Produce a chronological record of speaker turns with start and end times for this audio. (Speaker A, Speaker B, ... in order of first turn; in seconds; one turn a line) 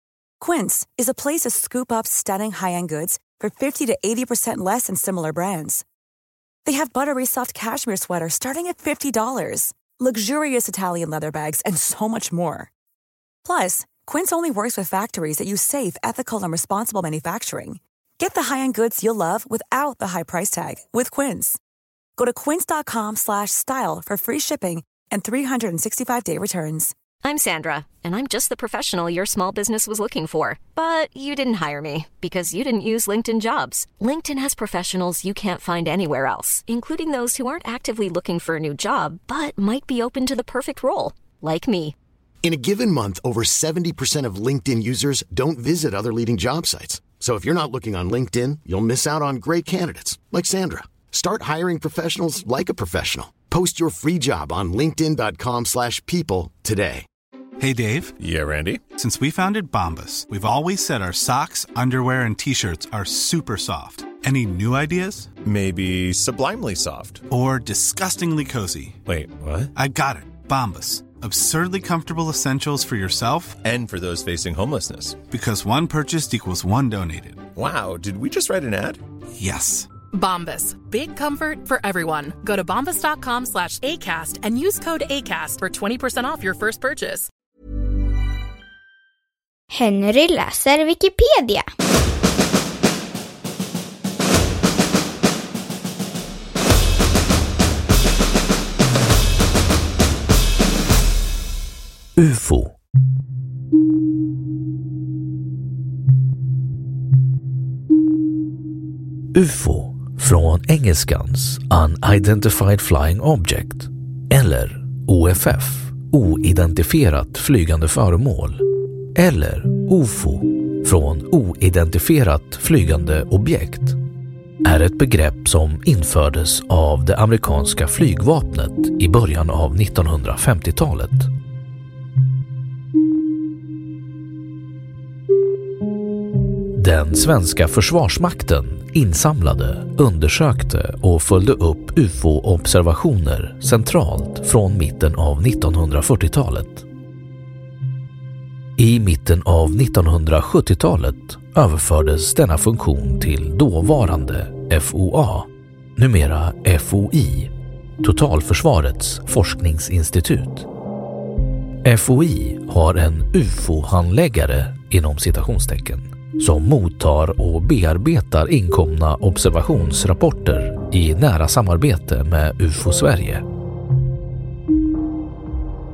Speaker A: 0.4-5.8
Speaker A: 6.6-12.7
Speaker A: 13.4-21.6
Speaker A: 22.2-26.9
Speaker B: 27.2-41.9
Speaker C: 42.4-57.0
Speaker D: 57.6-58.2
Speaker E: 58.2-58.8
Speaker D: 58.9-65.3
Speaker E: 65.4-67.2
Speaker D: 67.3-69.0
Speaker E: 69.1-69.7
Speaker D: 69.7-73.6
Speaker E: 73.6-75.2
Speaker D: 75.3-77.5
Speaker E: 77.5-79.0
Speaker D: 79.4-79.9
Speaker F: 80.1-87.3
Speaker G: 89.7-91.7
Speaker H: 102.2-102.7
Speaker H: 109.3-118.6
Speaker H: 119.2-124.0
Speaker H: 124.6-131.3
Speaker H: 136.8-146.8
Speaker H: 148.8-160.7
Speaker H: 161.8-173.4